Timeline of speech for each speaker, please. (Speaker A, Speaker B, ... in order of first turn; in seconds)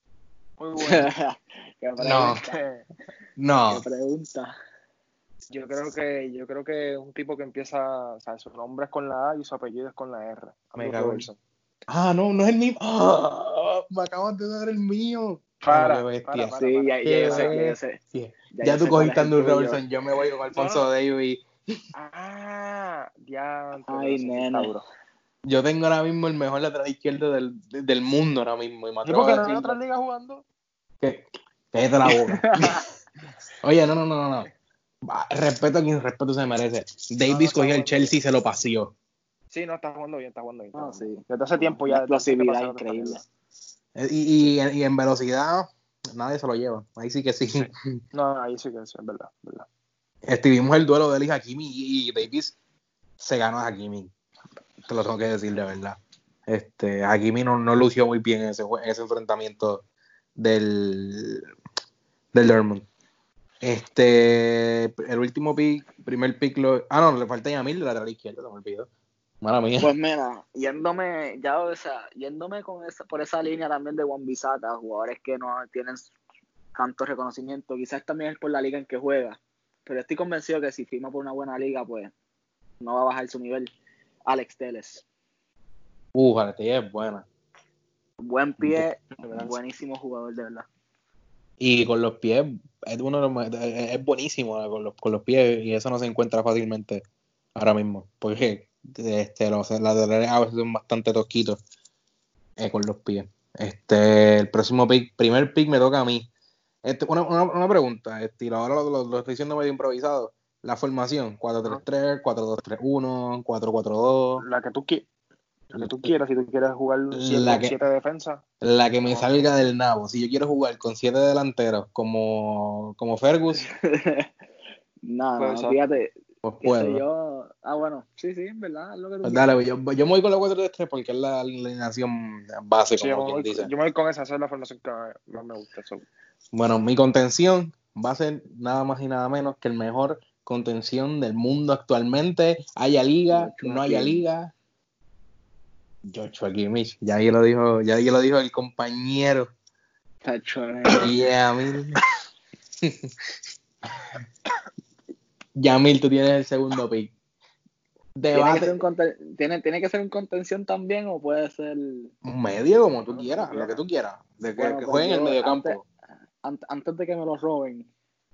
Speaker A: 0.6-1.1, 2.3-2.8, 5.5-11.4, 15.6-17.6, 20.5-20.9, 22.0-24.8, 29.1-30.4, 37.3-38.2, 39.5-43.2, 47.6-49.7, 114.4-115.1, 115.7-118.4, 125.4-125.8, 132.9-136.1, 163.1-163.7
Speaker B: 0.8-2.6, 3.7-4.5, 16.6-18.0, 18.5-19.8, 23.9-24.7, 32.1-32.8, 40.8-43.2, 69.8-76.1, 76.8-82.1, 82.8-83.7, 84.3-85.0, 88.2-90.7, 123.7-124.3, 125.0-129.5, 143.3-144.2, 150.2-151.1, 158.3-162.1, 164.6-165.8, 166.4-167.9
Speaker C: 2.0-2.4, 3.4-3.8, 10.8-11.3, 11.9-21.5, 25.5-29.7, 31.0-32.9, 33.6-34.5, 35.1-38.9, 44.0-47.9, 50.3-52.6, 53.2-54.1, 54.9-59.8, 60.4-61.5, 62.3-62.9, 63.6-68.9, 69.4-69.9, 86.1-87.3, 88.6-89.5, 91.6-97.0, 97.5-101.6, 102.6-106.3, 106.8-114.4, 115.7-116.1, 117.1-117.7, 118.6-123.7, 126.4-127.0, 129.2-133.7, 136.5-144.5, 146.1-149.5, 151.0-152.0, 155.6-157.1, 158.2-158.8, 162.2-165.9